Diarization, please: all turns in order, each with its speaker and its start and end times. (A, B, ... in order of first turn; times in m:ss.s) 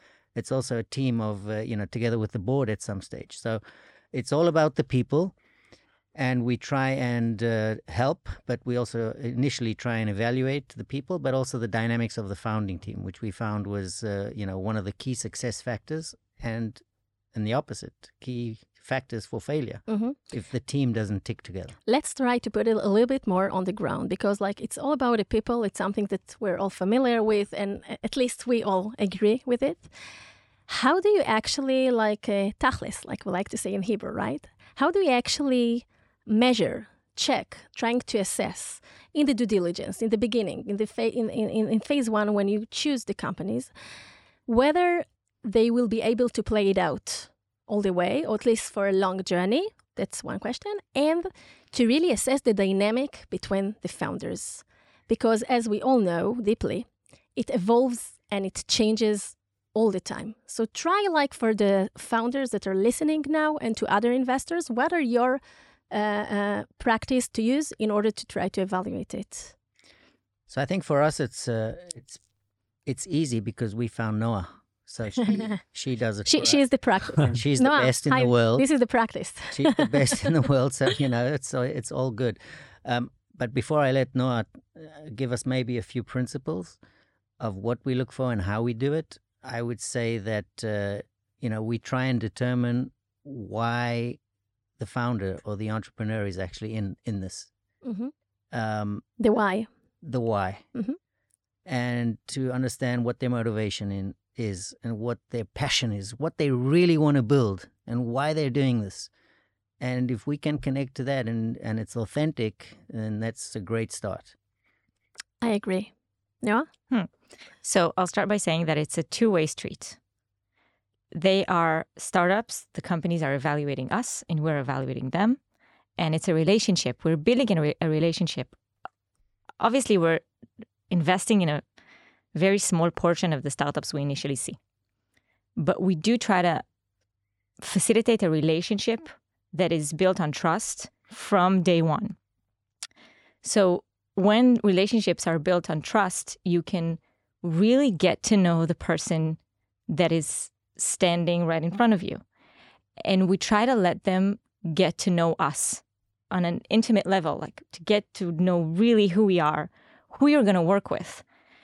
0:00.3-0:03.6 A
0:04.1-0:05.3 A
0:06.2-0:16.8 A
0:17.3-0:21.7 A
0:19.9-0:20.2 B
0:21.9-0:29.9 B
0:30.7-0:43.7 B
0:44.5-1:09.5 B
1:10.5-1:12.2 A
1:12.8-1:18.6 A
1:16.2-1:20.3 B
1:19.5-1:26.8 A
1:27.4-1:34.2 A
1:34.8-1:37.5 A
1:37.8-1:38.1 B
1:38.5-1:39.0 A
1:39.2-1:39.7 B
1:40.0-1:40.7 A
1:41.6-1:49.1 A
1:49.8-1:54.3 A
1:55.4-1:56.7 B
1:57.6-2:00.0 C
2:01.1-2:05.4 C
2:06.0-2:08.5 C
2:09.6-2:10.2 C
2:10.9-2:11.6 C
2:12.3-2:14.6 C
2:15.6-2:16.6 C
2:17.6-2:22.2 C
2:23.4-2:32.2 C
2:33.0-2:41.2 C